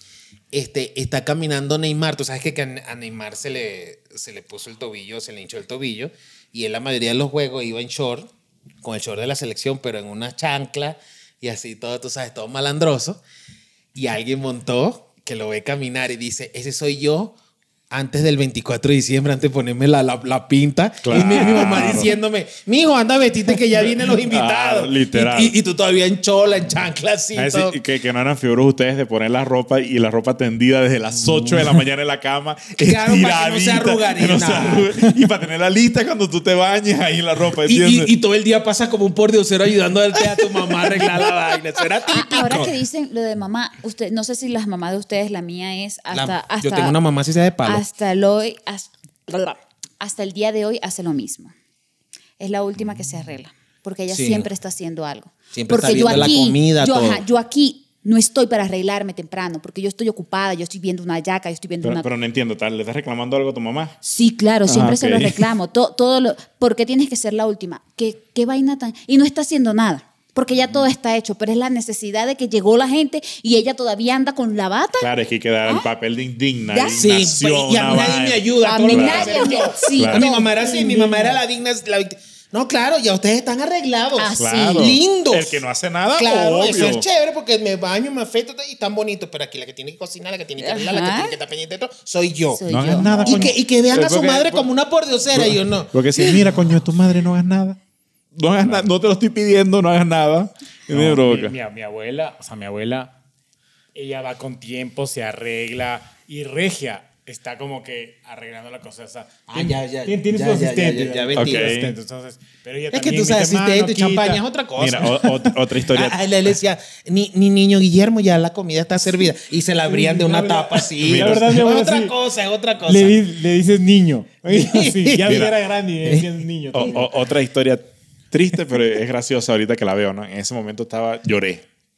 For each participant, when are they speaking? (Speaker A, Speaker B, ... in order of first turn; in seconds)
Speaker A: 0.5-8.3, 8.8-13.2, 13.9-17.4, 17.9-27.8, 32.8-34.9, 37.6-42.7, 46.1-47.8, 54.1-54.5, 55.5-57.2, 77.0-85.6, 86.2-96.5, 109.5-111.7, 112.9-123.2, 124.5-125.5
Speaker B: 21.0-22.1, 24.3-25.6, 27.4-38.1, 61.8-63.9, 64.7-65.5, 75.0-80.3, 84.4-87.1, 92.7-94.7, 95.3-97.8, 98.3-101.6, 111.3-111.9, 114.8-116.2, 121.0-121.5, 125.2-125.5, 126.7-131.7
Speaker C: 21.6-22.0, 80.8-81.3, 100.9-103.2, 104.0-114.4, 119.8-122.2, 122.9-127.1
Speaker D: 42.1-47.0, 47.6-51.5, 52.4-62.1, 64.0-75.1, 76.7-77.1, 78.6-80.6, 84.2-85.0, 90.6-91.4, 92.5-93.5